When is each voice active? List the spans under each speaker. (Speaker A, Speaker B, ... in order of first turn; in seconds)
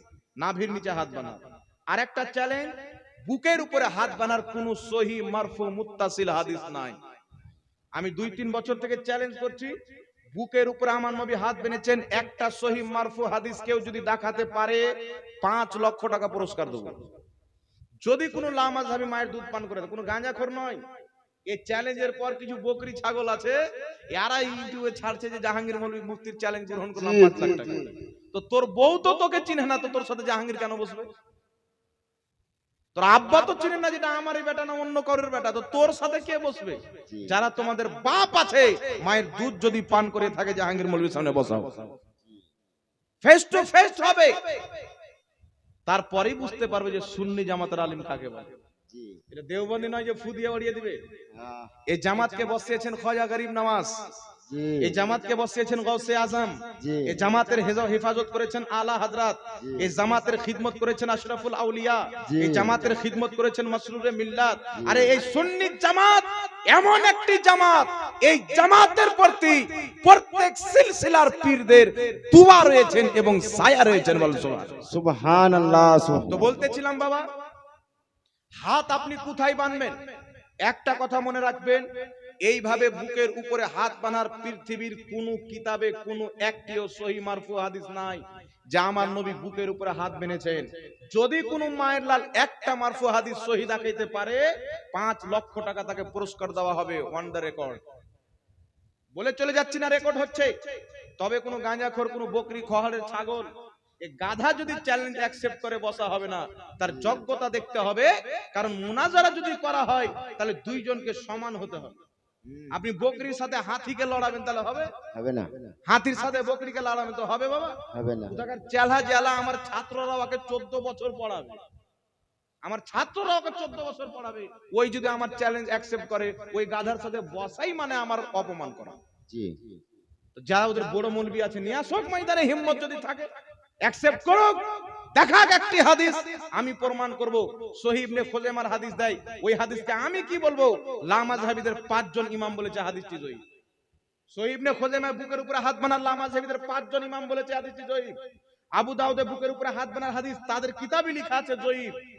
Speaker A: 0.4-2.8, 3.3-7.0, 8.0-9.8, 10.3-14.9, 15.4-17.1, 18.0-20.8, 21.5-23.6, 24.1-31.1, 33.0-41.9, 43.2-44.6, 45.9-48.5, 49.3-51.0, 51.9-54.1, 54.8-74.8, 76.3-77.2, 78.6-80.0, 80.7-81.8, 82.4-97.8, 99.2-100.5, 101.2-103.5, 104.0-112.0, 112.7-114.9, 115.9-121.6, 122.7-129.0, 130.4-133.3, 133.8-143.4, 144.3-148.2, 148.8-152.0
Speaker B: 27.0-27.9, 37.1-37.4, 48.9-49.2, 51.3-51.8, 54.5-55.0, 56.8-57.2, 59.6-59.9, 62.3-62.8, 64.8-65.2, 74.9-76.6, 106.8-107.2, 112.5-112.7, 115.1-115.8, 117.9-118.5, 129.3-129.8